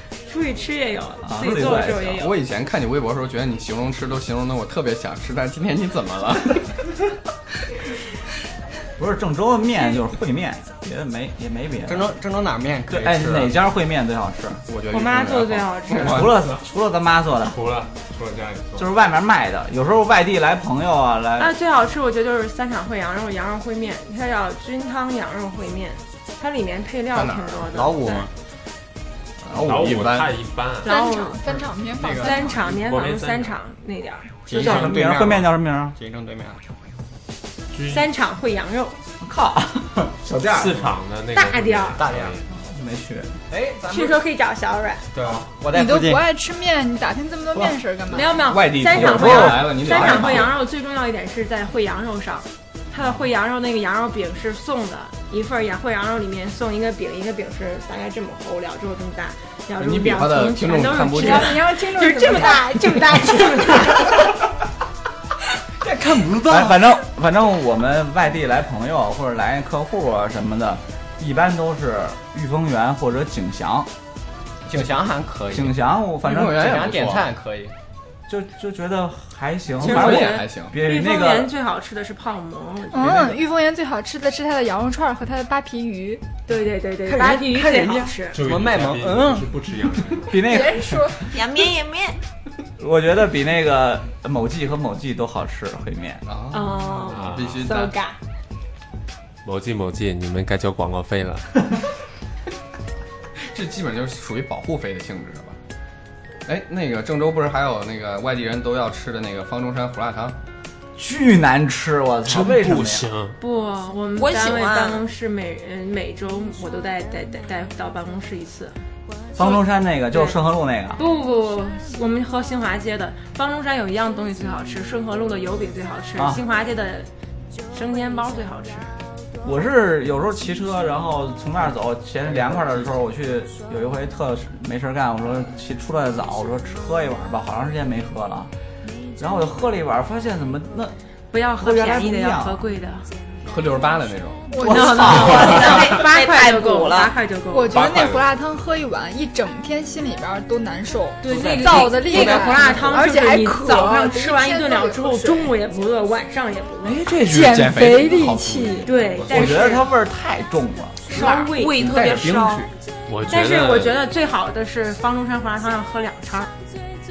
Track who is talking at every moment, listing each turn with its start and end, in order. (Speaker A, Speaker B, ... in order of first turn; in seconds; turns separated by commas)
Speaker A: 0.2-2.3, Speaker B: 1.2-2.2, Speaker C: 2.2-6.7, Speaker B: 9.0-12.2, Speaker D: 11.8-13.5, Speaker B: 12.9-14.6, Speaker C: 14.7-16.4, Speaker A: 14.9-16.3, Speaker B: 15.9-17.6, Speaker E: 17.5-18.9, Speaker B: 18.8-21.5, Speaker A: 21.4-28.3, Speaker C: 27.1-27.6, Speaker D: 27.7-28.3, Speaker C: 29.4-30.3, Speaker E: 29.5-30.9, Speaker A: 30.8-31.4, Speaker F: 30.8-32.6, Speaker D: 31.5-32.5, Speaker A: 32.0-34.4, Speaker E: 32.6-33.6, Speaker D: 34.4-36.6, Speaker B: 34.5-36.0, Speaker E: 34.5-35.0, Speaker E: 37.7-38.1, Speaker A: 37.9-39.0, Speaker B: 39.2-41.0, Speaker E: 40.5-42.4, Speaker A: 41.3-42.0, Speaker D: 41.9-42.4, Speaker B: 42.5-43.3, Speaker D: 43.5-44.2, Speaker A: 43.9-45.1, Speaker D: 45.1-46.2, Speaker F: 45.7-48.5, Speaker A: 48.1-64.3, Speaker C: 48.5-50.5, Speaker B: 48.9-50.5, Speaker C: 59.8-61.6, Speaker F: 61.1-62.8, Speaker D: 65.8-66.9, Speaker B: 66.5-73.9, Speaker D: 74.7-75.8, Speaker B: 75.5-76.8, Speaker C: 76.2-77.3, Speaker D: 76.4-77.7, Speaker B: 78.3-81.5, Speaker C: 79.8-80.7, Speaker A: 79.8-83.4, Speaker D: 80.0-80.3, Speaker F: 82.9-86.2, Speaker A: 86.5-88.4, Speaker D: 87.0-89.5, Speaker E: 88.3-90.4, Speaker B: 90.3-91.2, Speaker F: 90.4-91.3, Speaker G: 91.3-92.2, Speaker B: 92.8-96.2, Speaker C: 96.2-97.9, Speaker A: 96.5-98.2, Speaker E: 97.1-97.7, Speaker E: 99.4-101.6, Speaker C: 103.5-105.6, Speaker C: 106.5-110.4, Speaker B: 111.0-113.1, Speaker E: 112.3-113.4, Speaker A: 113.4-118.8, Speaker G: 114.2-115.0, Speaker B: 119.3-121.0, Speaker A: 120.1-120.4, Speaker A: 121.0-127.1, Speaker B: 126.2-126.4, Speaker A: 127.7-128.9, Speaker B: 129.4-138.5, Speaker D: 132.3-132.9, Speaker B: 139.2-140.9, Speaker A: 141.3-143.1, Speaker B: 141.6-142.6, Speaker C: 143.4-144.5, Speaker F: 144.5-145.7, Speaker B: 144.6-145.6, Speaker A: 144.6-147.8, Speaker G: 145.0-147.1, Speaker F: 147.5-155.5, Speaker E: 147.7-148.3, Speaker A: 151.2-157.0, Speaker B: 151.3-151.9, Speaker D: 152.2-152.7, Speaker C: 156.9-158.9, Speaker F: 157.2-158.9, Speaker A: 158.8-159.9, Speaker B: 159.3-161.2, Speaker A: 161.1-161.8, Speaker G: 161.1-162.7, Speaker C: 161.8-162.7, Speaker E: 163.1-164.0, Speaker A: 163.3-166.5